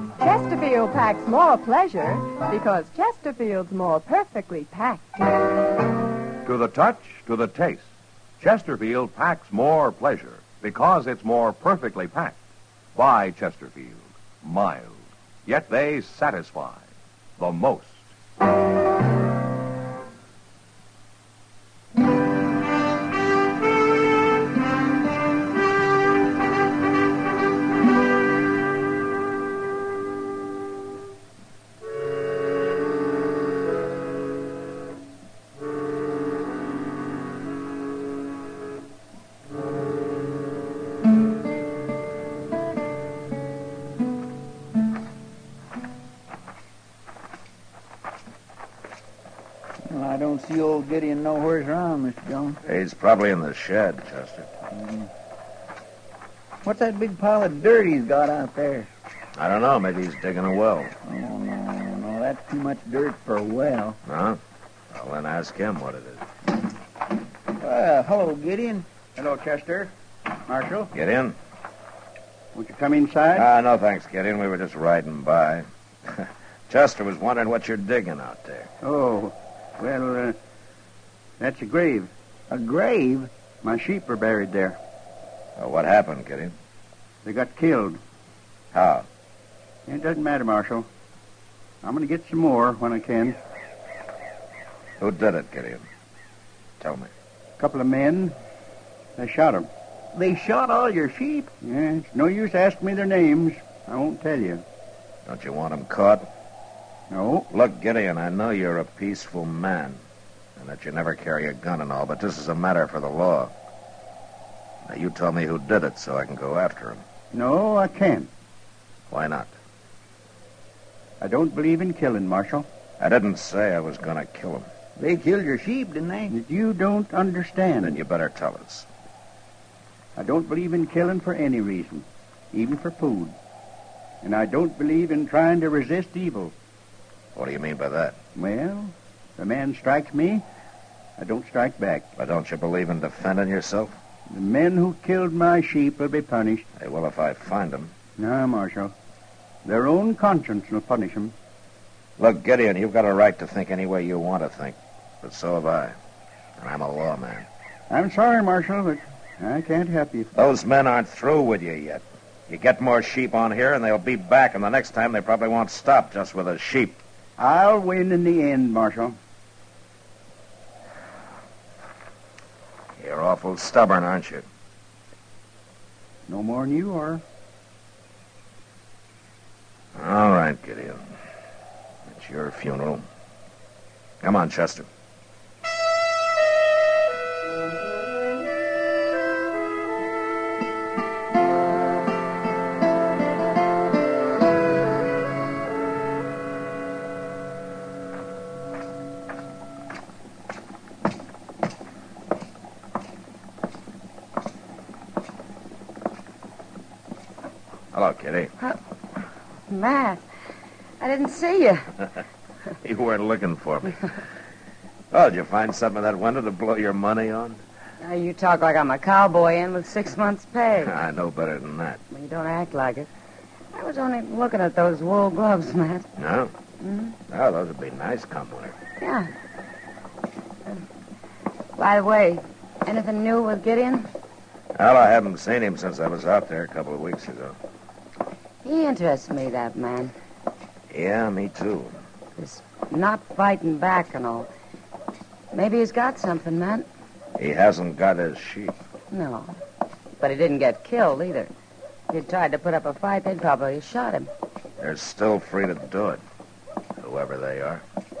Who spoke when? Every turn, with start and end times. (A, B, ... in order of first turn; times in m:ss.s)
0:00.2-0:05.2 A
0:06.4-0:07.8 B
0:08.4-0:12.4 B
0:12.9-0:16.8 B
0:17.4-0:18.0 B
0:49.8-0:52.6 C
0:52.6-0:54.5 D
0:54.8-0:55.0 C
0:56.6-0:58.9 C
0:59.4-1:00.9 D
1:01.0-1:04.0 C
1:04.0-1:04.4 D
1:04.9-1:06.2 D
1:07.6-1:08.9 C
1:09.2-1:09.9 E
1:10.5-1:10.9 E
1:10.9-1:11.4 D
1:12.5-1:13.4 E
1:13.3-1:18.7 D
1:18.8-1:20.4 E
1:21.4-1:22.1 E
1:22.5-1:23.3 C
1:23.6-1:24.8 E
1:25.6-1:26.5 D
1:27.2-1:28.0 E
1:28.7-1:29.1 D
1:29.9-1:30.9 E
1:31.8-1:33.4 E
1:35.0-1:35.8 D
1:36.8-1:37.1 D
1:37.6-1:38.3 E
1:39.2-1:39.7 E
1:40.1-1:41.5 C
1:41.6-1:44.6 E
1:45.2-1:46.3 D
1:47.1-1:47.5 E
1:47.5-1:50.0 D
1:50.6-1:53.5 D
1:54.8-1:57.0 D
1:57.3-1:58.3 E
1:59.1-1:59.5 D
2:01.2-2:02.6 E
2:03.0-2:04.7 D
2:05.0-2:06.3 C
2:06.3-2:08.0 E
2:07.8-2:08.9 D
2:10.2-2:13.3 E
2:14.2-2:16.5 E
2:17.3-2:18.2 D
2:18.4-2:20.4 E
2:21.2-2:22.1 E
2:22.2-2:24.0 D
2:24.3-2:26.6 E
2:26.8-2:27.9 D
2:28.2-2:28.9 E
2:29.6-2:31.3 E
2:32.2-2:35.9 D
2:36.6-2:37.5 D
2:37.9-2:40.3 E
2:40.3-2:47.0 D
2:47.4-2:49.2 E
2:53.0-2:54.4 D
2:56.3-2:57.2 E
2:59.9-3:01.2 D
3:02.1-3:03.0 D
3:04.2-3:04.9 D
3:27.9-3:28.5 D
3:29.7-3:30.2 F
3:31.0-3:31.9 F
3:32.8-3:34.0 D
3:35.1-3:37.6 D
3:38.0-3:41.0 F
3:40.8-3:42.0 D
3:42.1-3:43.1 F
3:43.7-3:46.1 F
3:46.2-3:46.5 D
3:46.8-3:47.1 F
3:47.3-3:48.8 D
3:49.0-3:49.3 F
3:51.8-3:54.1 F
3:54.7-3:57.6 D
3:58.6-4:00.1 F
4:00.9-4:01.9 D
4:02.4-4:04.5 F
4:05.5-4:06.9 F
4:07.4-4:08.8 D
4:09.1-4:09.5 F
4:10.2-4:11.5 F
4:12.1-4:14.3 F
4:14.8-4:16.2 D
4:17.0-4:17.8 D